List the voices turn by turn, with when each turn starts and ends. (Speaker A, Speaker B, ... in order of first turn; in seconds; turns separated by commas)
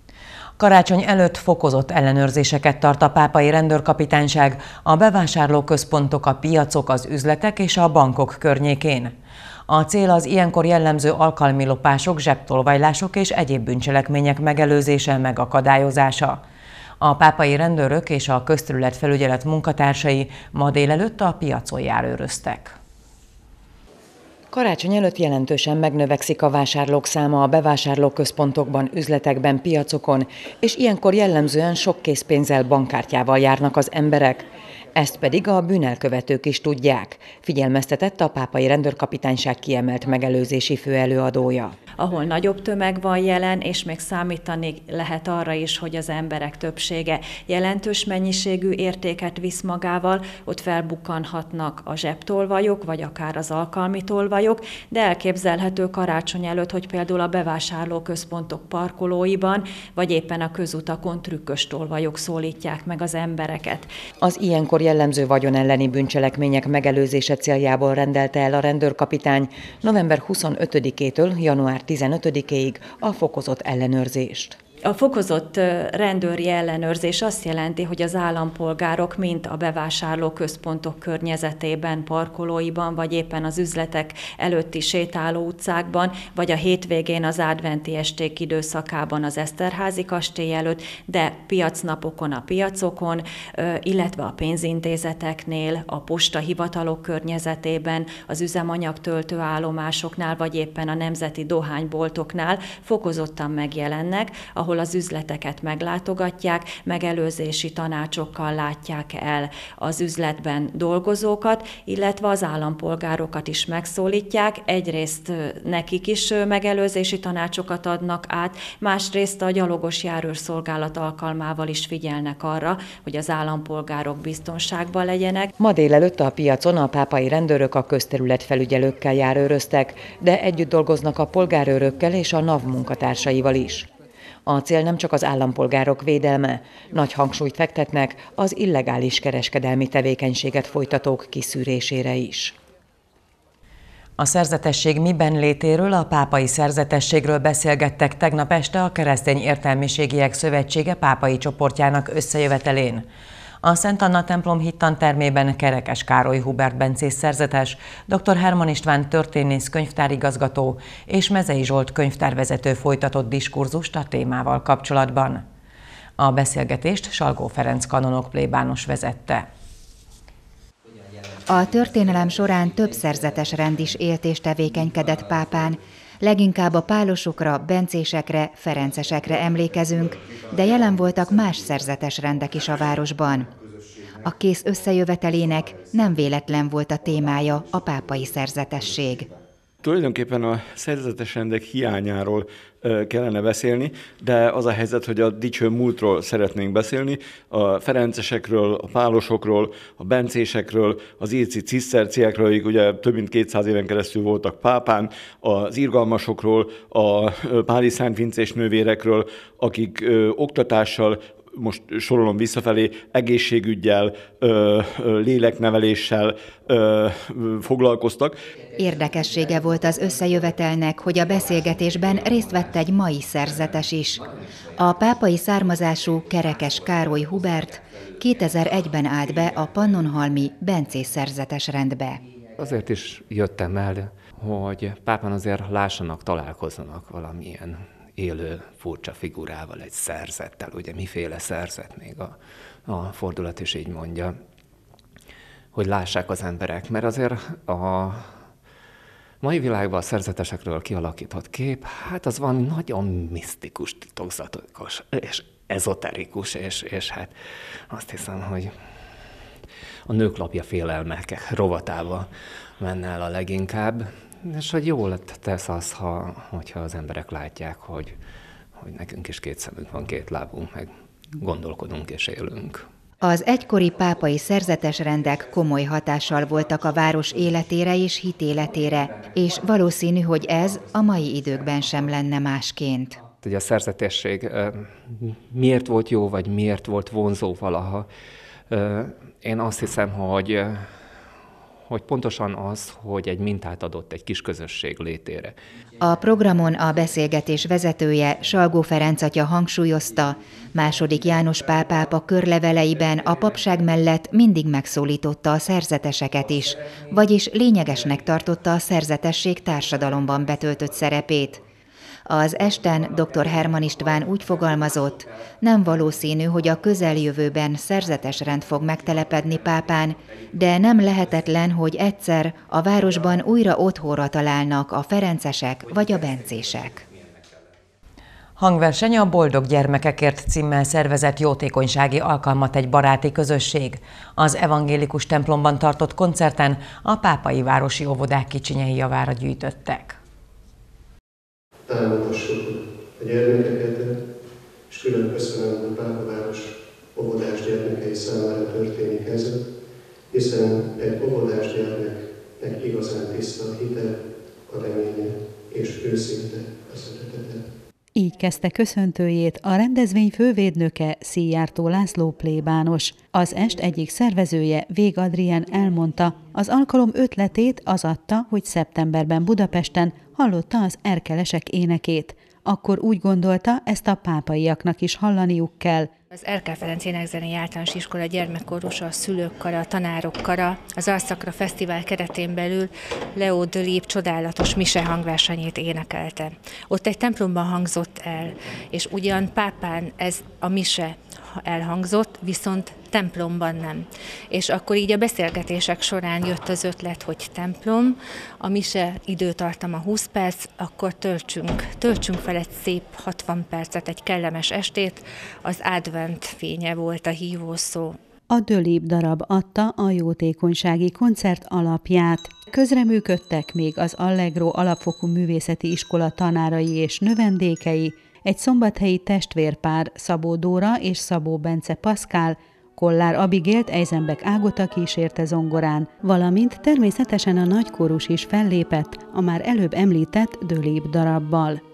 Speaker A: 0.6-9.1, Speaker A: 9.7-16.4, Speaker A: 17.0-22.8, Speaker A: 24.5-34.4, Speaker A: 35.0-41.7, Speaker B: 42.0-63.9, Speaker A: 64.2-74.6, Speaker B: 74.8-125.5, Speaker A: 125.6-133.9, Speaker A: 134.4-142.5, Speaker A: 144.2-153.0, Speaker A: 153.6-165.4, Speaker A: 166.2-169.4, Speaker C: 171.5-183.5, Speaker C: 184.2-189.3, Speaker D: 189.8-218.3, Speaker C: 218.8-224.2, Speaker C: 224.8-232.2, Speaker E: 232.6-244.3, Speaker E: 245.7-248.3, Speaker E: 249.4-257.3, Speaker E: 257.9-258.7, Speaker E: 260.1-262.3, Speaker E: 262.8-268.1, Speaker E: 268.8-272.9, Speaker C: 273.2-283.2, Speaker E: 283.4-288.1, Speaker E: 288.7-290.9, Speaker E: 291.9-295.5, Speaker C: 296.0-311.6, Speaker C: 312.3-327.0, Speaker A: 328.6-340.2, Speaker F: 341.9-344.1, Speaker F: 344.9-349.6, Speaker F: 350.3-357.6, Speaker G: 358.1-376.1, Speaker H: 376.3-408.2, Speaker G: 408.5-431.8